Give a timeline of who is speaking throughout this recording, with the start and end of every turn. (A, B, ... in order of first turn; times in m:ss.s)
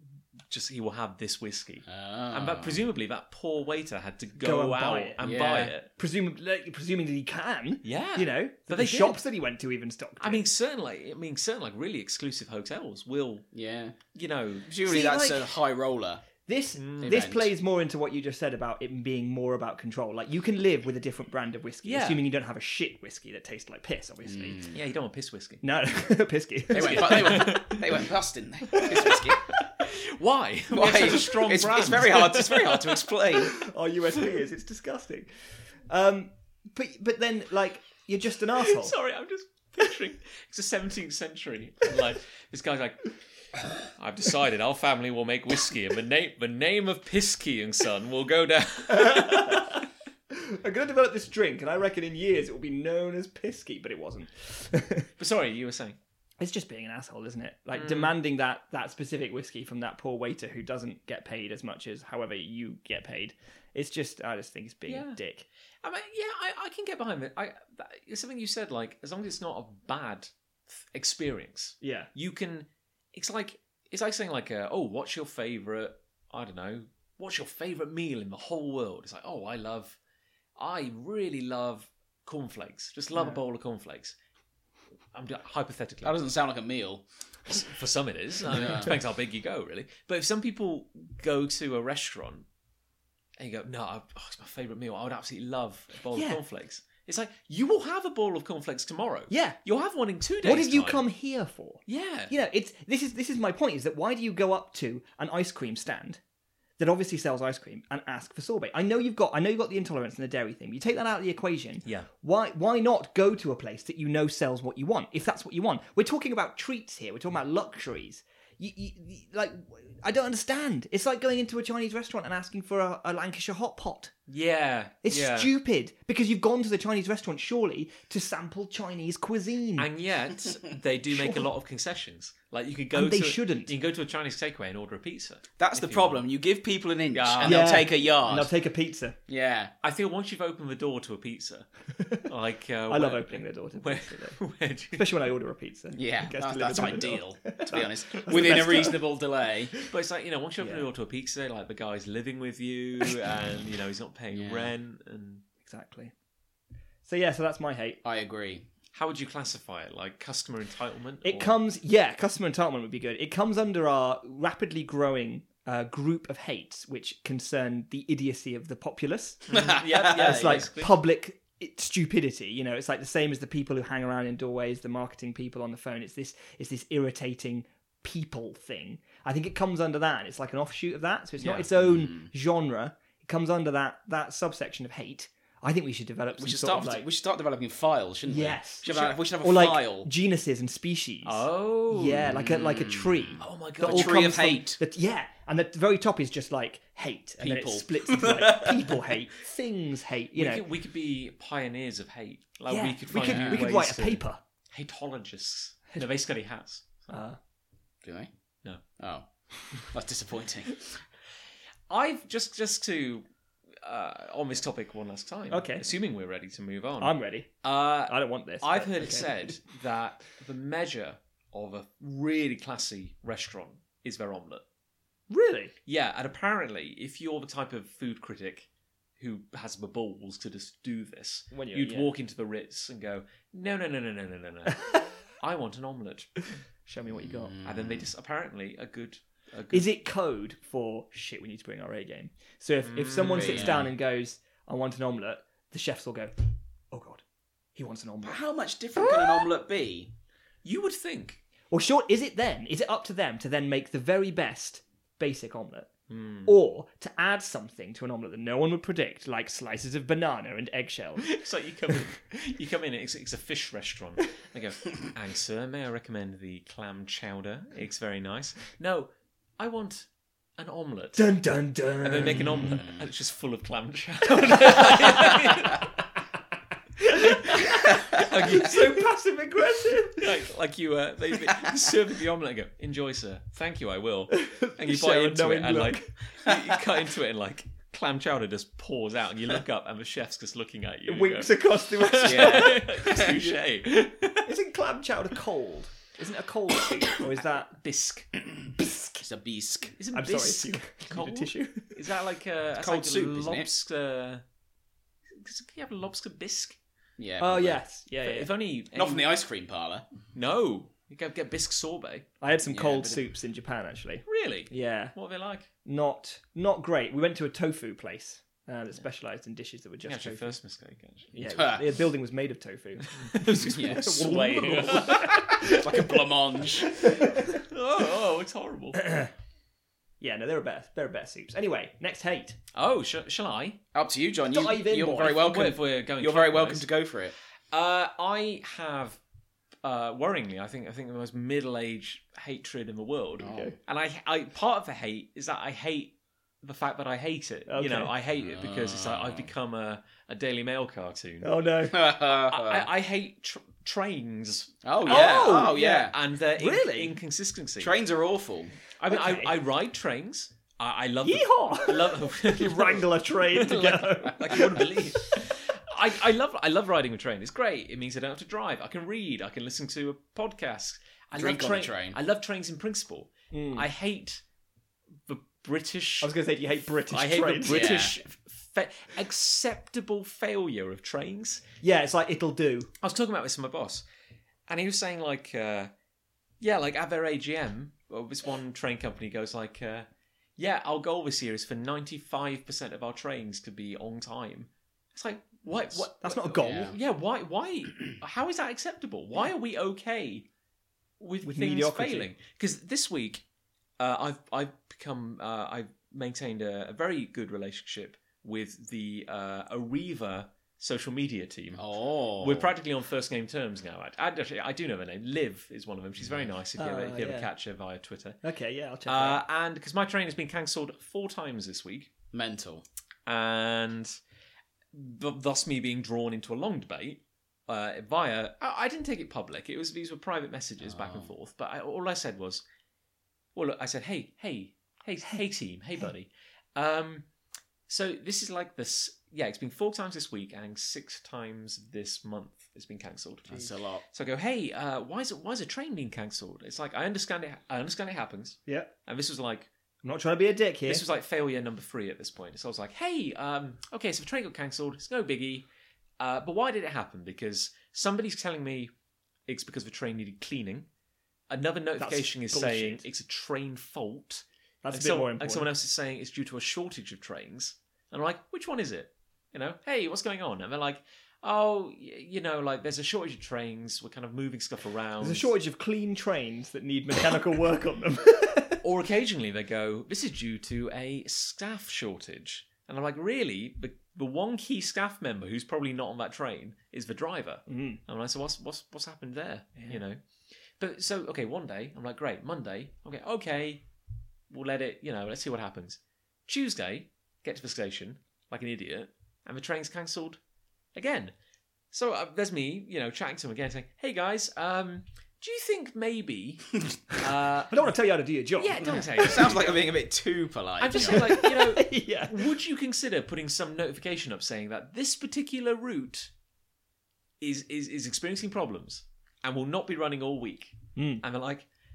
0:00.5-0:05.9 A
0:01.9-0:02.8 B
0:04.4-0:05.2 C
0:05.2-0:05.8 B
0:06.0-0:10.4 C
0:07.8-0:09.2 A
0:10.2-0:13.5 A
0:13.5-0:14.0 B
0:14.1-0:15.1 A
0:14.7-0:16.2 B
0:14.8-0:15.5 C
0:16.5-0:24.7 C
0:16.8-0:17.3 A
0:17.0-0:17.5 B
0:21.8-0:22.2 A
0:24.2-0:24.8 B
0:24.7-0:25.6 A
0:25.6-0:27.5 C
0:26.7-0:28.1 A
0:26.7-0:29.5 B
0:28.8-0:29.1 C
0:28.8-0:33.0 A
0:30.7-0:33.6 B
0:33.6-0:38.9 C
0:38.6-0:43.2 A
0:43.9-0:49.8 A
0:48.9-0:55.1 C
0:55.2-0:56.0 A
0:56.4-1:05.4 C
0:57.7-0:58.2 A
1:04.9-1:05.2 A
1:05.8-1:20.0 A
1:11.8-1:12.1 C
1:20.6-1:24.2 A
1:25.1-1:26.2 A
1:26.0-1:27.5 B
1:27.5-1:32.5 A
1:28.5-1:28.9 B
1:33.4-1:41.0 A
1:36.1-1:36.4 C
1:39.3-1:39.6 C
1:40.4-1:46.2 C
1:41.9-1:42.3 A
1:46.8-2:04.1 C
2:04.3-2:05.5 A
2:05.0-2:09.9 C
2:09.8-2:16.2 A
2:11.1-2:11.4 C
2:12.9-2:13.7 C
2:15.6-2:18.5 B
2:17.1-2:17.8 A
2:17.4-2:19.2 C
2:19.3-2:19.7 B
2:19.8-2:25.1 A
2:22.0-2:22.3 C
2:22.9-2:24.4 C
2:24.9-2:29.1 C
2:26.0-2:29.8 B
2:29.9-2:35.4 A
2:30.6-2:30.9 C
2:34.3-2:34.7 B
2:35.6-2:36.1 C
2:37.0-2:38.0 C
2:38.0-2:38.7 B
2:38.9-2:41.6 A
2:41.2-2:49.5 C
2:49.5-2:50.7 B
2:49.5-2:51.0 A
2:50.1-3:07.0 C
3:01.5-3:02.3 B
3:06.4-3:10.1 B
3:08.3-3:20.6 C
3:11.2-3:12.3 A
3:12.2-3:14.8 B
3:13.4-3:14.3 A
3:17.4-3:19.0 B
3:20.4-3:27.1 A
3:22.7-3:24.4 C
3:23.2-3:23.7 B
3:27.1-3:27.4 C
3:28.0-3:28.3 B
3:29.0-3:29.3 B
3:29.8-3:30.9 B
3:31.9-3:33.3 A
3:33.8-3:44.6 A
3:35.5-3:35.9 C
3:37.0-3:37.5 C
3:38.1-3:39.5 C
3:45.3-3:45.7 C
3:45.9-3:48.7 A
3:49.2-3:56.3 A
3:51.5-3:52.1 C
3:56.8-3:57.6 C
3:57.1-3:58.1 B
3:57.6-3:59.9 A
3:59.7-4:06.3 C
4:02.8-4:03.8 A
4:03.3-4:03.9 B
4:06.9-4:07.2 C
4:07.8-4:08.4 C
4:08.2-4:10.1 B
4:10.6-4:11.4 A
4:11.7-4:15.9 C
4:16.1-4:16.6 A
4:16.5-4:21.3 C
4:21.2-4:30.1 A
4:30.6-4:31.3 A
4:31.2-4:32.7 C
4:32.0-4:35.9 A
4:32.6-4:33.1 B
4:34.8-4:35.4 C
4:37.0-4:40.3 C
4:37.1-4:39.1 A
4:40.2-4:54.5 A
4:44.3-4:46.1 C
4:51.1-4:53.6 C
4:52.2-4:53.5 B
4:54.4-4:57.7 C
4:57.7-4:58.3 A
4:58.8-4:59.2 C
4:59.2-5:00.0 B
5:00.0-5:04.4 A
5:00.1-5:02.0 C
5:02.8-5:03.7 B
5:05.4-5:06.8 A
5:07.2-5:07.8 B
5:07.4-5:08.5 C
5:08.2-5:09.3 A
5:08.9-5:10.1 B
5:10.3-5:12.3 A
5:12.4-5:15.1 C
5:12.7-5:13.3 B
5:14.3-5:15.7 A
5:15.8-5:20.5 C
5:20.1-5:21.4 A
5:21.3-5:25.9 C
5:21.5-5:21.9 B
5:23.1-5:25.7 A
5:23.7-5:27.0 B
5:27.0-5:27.3 C
5:27.5-5:29.3 A
5:29.0-5:29.3 C
5:30.2-5:32.6 C
5:32.7-5:33.8 A
5:33.9-5:37.4 B
5:34.5-5:35.6 C
5:35.0-5:36.9 A
5:37.7-5:39.2 A
5:39.8-5:51.5 A
5:43.4-5:43.8 B
5:47.7-5:48.1 C
5:48.4-5:49.5 B
5:51.4-5:52.0 C
5:51.9-5:52.9 B
5:52.2-5:58.0 A
5:54.8-5:56.2 B
5:55.1-5:57.2 C
5:57.8-5:58.7 B
5:59.0-6:14.4 A
5:59.1-5:59.5 C
6:01.2-6:05.0 C
6:11.4-6:12.2 B
6:13.5-6:13.9 C
6:15.3-6:16.3 A
6:16.2-6:17.9 C
6:17.1-6:21.6 A
6:17.7-6:18.2 B
6:21.8-6:22.9 C
6:23.0-6:24.0 A
6:24.7-6:25.9 A
6:26.6-6:40.5 A
6:36.2-6:36.9 C
6:36.5-6:37.0 B
6:41.2-6:43.4 A
6:41.4-6:42.3 C
6:44.0-6:58.4 A
6:51.8-6:52.7 B
6:56.2-6:56.5 B
6:56.8-6:57.5 C
6:58.4-6:59.4 C
6:59.1-7:02.1 A
7:02.3-7:02.8 B
7:03.3-7:04.1 A
7:04.9-7:12.6 A
7:10.8-7:11.3 B
7:13.6-7:17.3 A
7:17.9-7:29.7 A
7:23.5-7:24.0 B
7:30.0-7:31.0 C
7:30.9-7:35.7 A
7:36.2-7:38.9 A
7:39.5-7:40.9 A
7:41.5-7:55.5 A
7:42.0-7:43.0 C
7:44.8-7:45.7 C
7:55.2-7:58.8 C
7:58.8-8:10.2 A
8:07.7-8:08.0 C
8:10.8-8:13.8 A
8:14.5-8:20.4 A
8:21.0-8:21.3 A
8:21.9-8:28.0 A
8:27.7-8:29.5 C
8:28.6-8:29.8 A
8:28.8-8:31.4 B
8:30.8-8:36.3 A
8:31.0-8:32.4 C
8:37.4-8:41.7 A
8:41.0-8:41.2 C